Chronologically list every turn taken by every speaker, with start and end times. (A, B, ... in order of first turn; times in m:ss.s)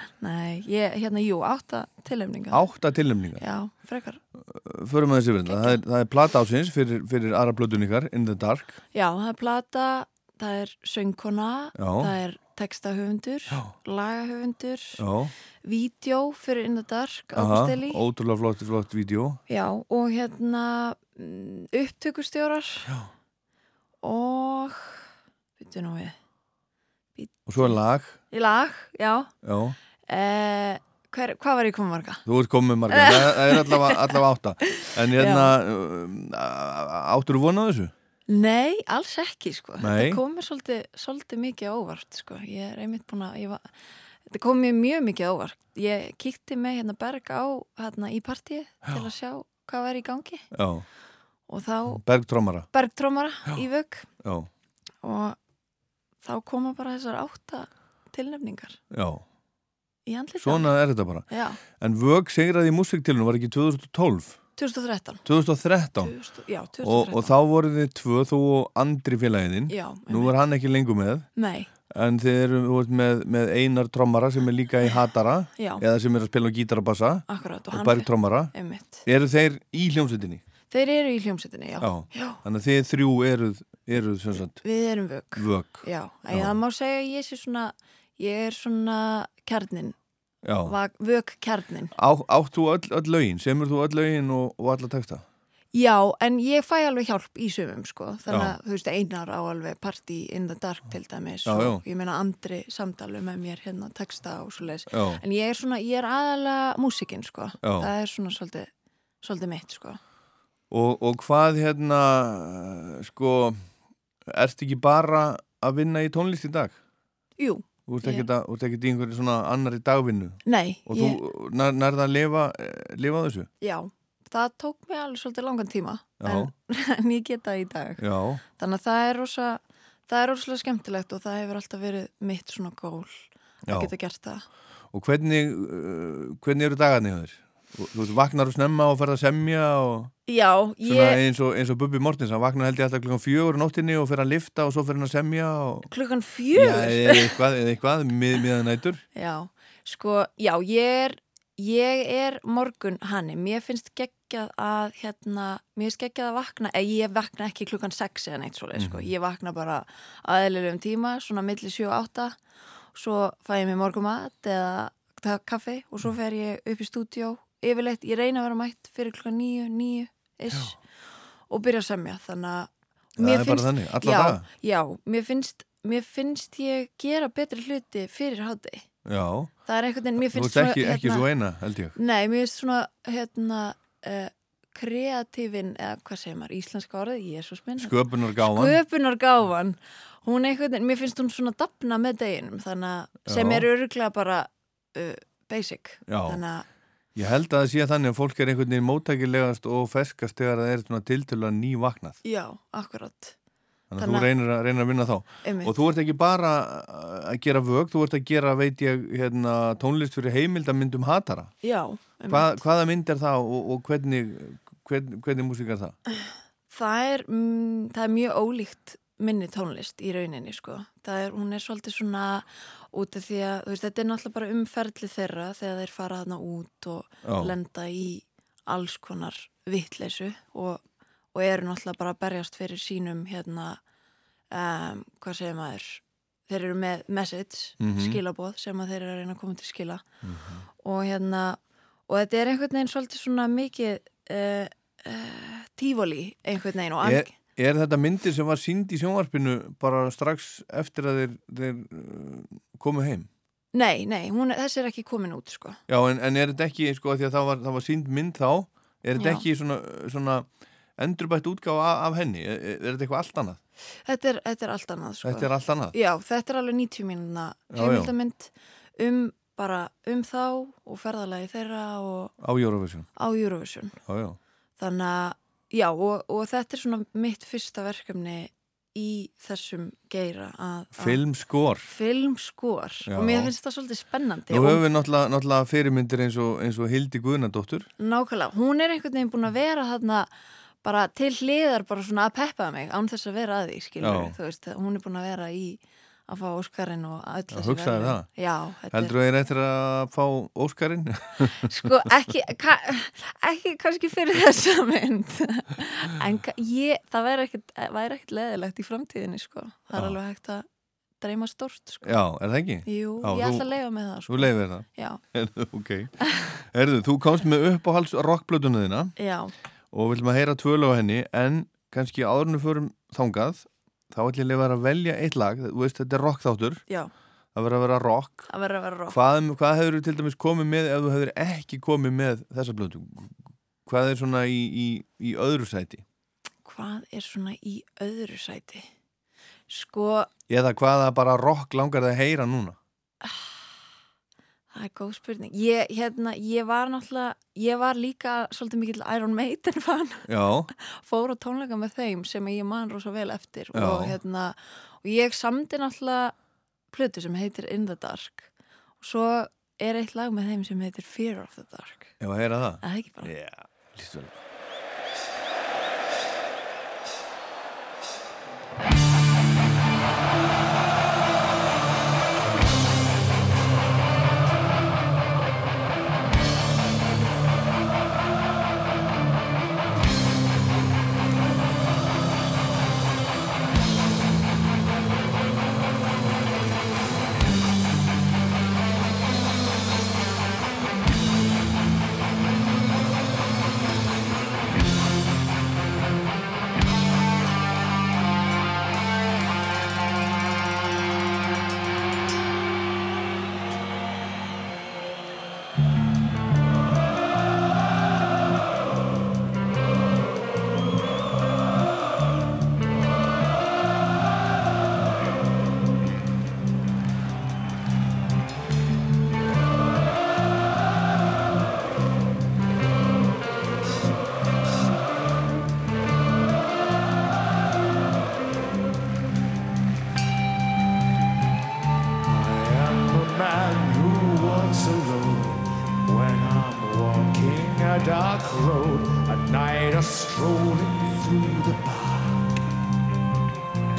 0:00.2-0:02.7 A
0:02.5-0:03.4 B
0:03.4-0:04.2 A
0:04.4-0:08.8 B
0:05.5-0:05.8 A
0:08.9-0:15.0 A
0:11.8-0:12.1 B
0:15.0-0:15.3 B
0:15.6-0:18.0 A
0:17.4-0:19.4 B
0:19.5-0:22.9 A
0:24.0-0:25.1 A
0:25.6-0:26.2 A
0:27.2-0:27.8 A
0:27.5-0:28.2 B
0:28.3-0:29.3 A
0:29.4-0:29.8 B
0:30.1-0:32.2 A
0:32.3-0:37.9 B
0:32.9-0:35.5 A
0:38.3-0:43.7 A
0:39.8-0:40.2 B
0:44.3-0:50.5 A
0:50.5-0:50.9 B
0:51.5-0:52.0 A
0:51.9-0:52.7 B
0:52.7-0:54.1 A
0:54.2-0:54.5 B
0:55.0-0:55.4 A
0:56.2-0:58.8 A
0:58.9-0:59.2 B
1:00.1-1:00.7 A
1:00.4-1:04.4 B
1:01.3-1:01.6 A
1:04.6-1:05.2 A
1:05.3-1:06.2 B
1:06.0-1:07.4 A
1:06.8-1:11.3 B
1:09.7-1:10.4 A
1:11.4-1:11.7 A
1:11.9-1:18.5 B
1:15.6-1:15.8 A
1:17.3-1:19.0 A
1:19.0-1:20.4 B
1:20.7-1:22.4 A
1:21.8-1:24.6 B
1:24.6-1:30.0 A
1:25.4-1:26.6 B
1:30.4-1:30.8 B
1:30.6-1:32.0 A
1:32.0-1:35.2 B
1:35.7-1:48.7 A
1:38.3-1:38.6 B
1:41.4-1:41.8 B
1:44.9-1:45.2 B
1:47.6-1:47.9 B
1:49.2-1:50.0 A
1:50.7-1:53.6 B
1:54.3-1:56.8 B
1:57.4-1:58.3 A
1:57.9-2:03.5 B
2:00.4-2:01.2 A
2:03.6-2:08.0 A
2:06.2-2:06.5 B
2:08.0-2:08.4 B
2:08.6-2:14.4 A
2:13.6-2:13.9 B
2:14.9-2:20.1 B
2:20.3-2:21.2 A
2:20.8-2:25.9 B
2:25.9-2:27.4 A
2:26.5-2:29.0 B
2:29.2-2:42.4 A
2:38.8-2:39.1 B
2:42.9-2:50.8 A
2:51.5-2:58.9 A
2:53.2-2:54.5 B
2:59.0-2:59.5 B
2:59.7-3:01.3 A
3:00.2-3:02.0 B
3:02.0-3:16.6 A
3:07.8-3:08.8 B
3:13.2-3:13.7 B
3:16.1-3:16.4 B
3:17.2-3:22.2 B
3:22.2-3:23.4 A
3:23.9-3:31.5 B
3:24.0-3:24.3 A
3:25.4-3:25.8 A
3:31.6-3:32.6 A
3:32.3-3:36.0 B
3:36.7-3:50.8 A
3:47.2-3:47.6 B
3:51.3-3:53.8 A
3:54.5-4:00.0 A
3:57.8-3:58.2 B
4:00.2-4:00.6 B
4:00.8-4:07.4 A
4:07.0-4:13.3 B
4:13.7-4:15.8 A
4:15.9-4:23.6 B
4:19.2-4:19.5 A
4:24.0-4:32.3 A
4:25.2-4:26.0 B
4:27.7-4:28.1 B
4:32.4-4:33.1 B
4:33.2-4:34.0 A
4:34.1-4:34.4 B
4:34.8-4:41.2 A
4:41.0-4:41.9 B
4:41.9-4:44.8 A
4:43.1-4:43.5 B
4:44.5-4:47.9 B
4:48.0-4:50.3 A
4:50.8-4:59.2 A
4:54.0-4:54.4 B
4:57.5-4:58.3 B
4:58.9-5:02.1 B
5:01.6-5:10.7 A
5:11.2-5:12.2 A
5:12.0-5:13.7 B
5:12.9-5:15.2 A
5:14.3-5:19.1 B
5:19.2-5:19.5 A
5:19.9-5:26.8 B
5:27.6-5:28.5 B
5:28.5-5:29.2 A
5:29.1-5:36.0 B
5:36.6-5:38.9 A
5:39.7-5:40.3 A
5:40.5-5:42.8 B
5:43.2-5:43.6 A
5:44.7-5:56.3 A
5:50.3-5:50.7 B
5:53.7-5:54.2 B
5:56.9-6:02.1 A
6:02.2-6:04.4 B
6:02.8-6:03.3 A
7:12.2-7:22.6 C